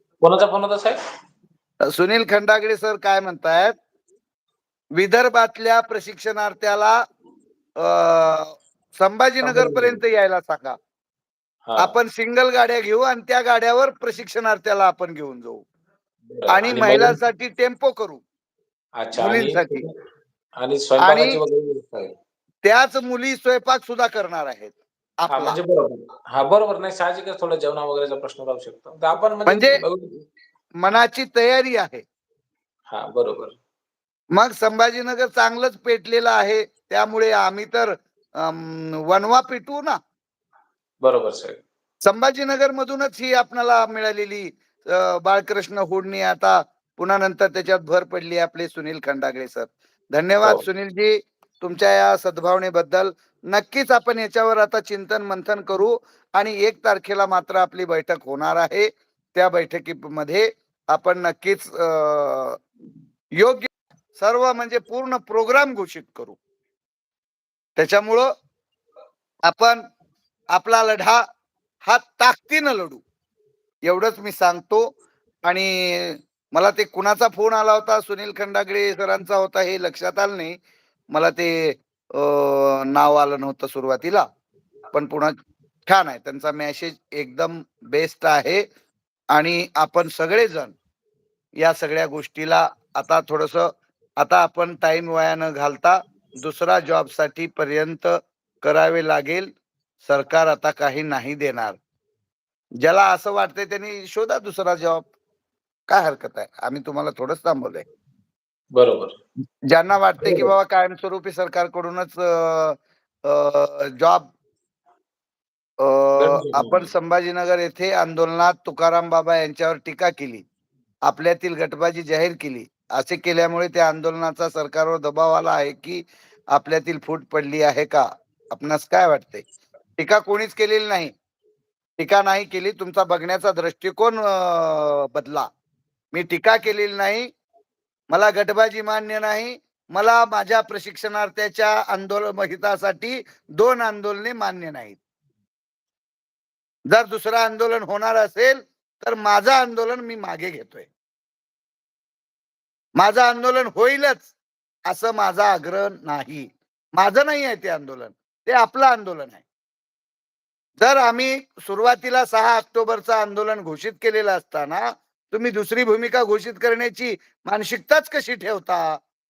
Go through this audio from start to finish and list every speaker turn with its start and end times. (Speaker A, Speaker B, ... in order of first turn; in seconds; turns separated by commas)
Speaker A: 0.2-1.0, Speaker B: 1.9-3.7, Speaker B: 4.9-7.0, Speaker B: 7.8-10.8, Speaker A: 9.4-10.0, Speaker A: 11.7-11.9, Speaker B: 11.8-15.7, Speaker A: 16.3-17.2, Speaker B: 16.5-18.2, Speaker A: 19.0-19.9, Speaker B: 19.2-19.8, Speaker A: 20.6-22.1, Speaker B: 21.0-21.4, Speaker B: 22.6-25.6, Speaker A: 25.3-30.1, Speaker B: 29.4-29.8, Speaker B: 30.8-32.0, Speaker A: 32.9-33.5, Speaker B: 34.3-40.0, Speaker A: 41.0-41.6, Speaker B: 42.0-62.6, Speaker B: 63.4-66.4, Speaker B: 67.8-68.3, Speaker B: 69.4-69.8, Speaker B: 70.5-71.2, Speaker B: 71.8-73.0, Speaker B: 73.9-74.9, Speaker B: 75.4-80.6, Speaker B: 81.1-84.2, Speaker B: 84.9-85.3, Speaker B: 85.9-88.6, Speaker B: 89.3-90.7, Speaker B: 91.6-99.5, Speaker B: 100.0-101.8, Speaker B: 102.8-105.1, Speaker B: 105.9-107.8, Speaker A: 108.7-109.2, Speaker B: 109.7-114.3, Speaker A: 110.2-110.5, Speaker B: 115.8-120.4, Speaker A: 116.2-116.9, Speaker B: 121.0-129.4, Speaker B: 130.0-131.1, Speaker B: 132.0-135.5, Speaker B: 136.1-137.3, Speaker B: 138.1-145.0, Speaker B: 146.9-150.9, Speaker B: 153.0-154.3, Speaker B: 154.9-159.4, Speaker B: 160.8-169.0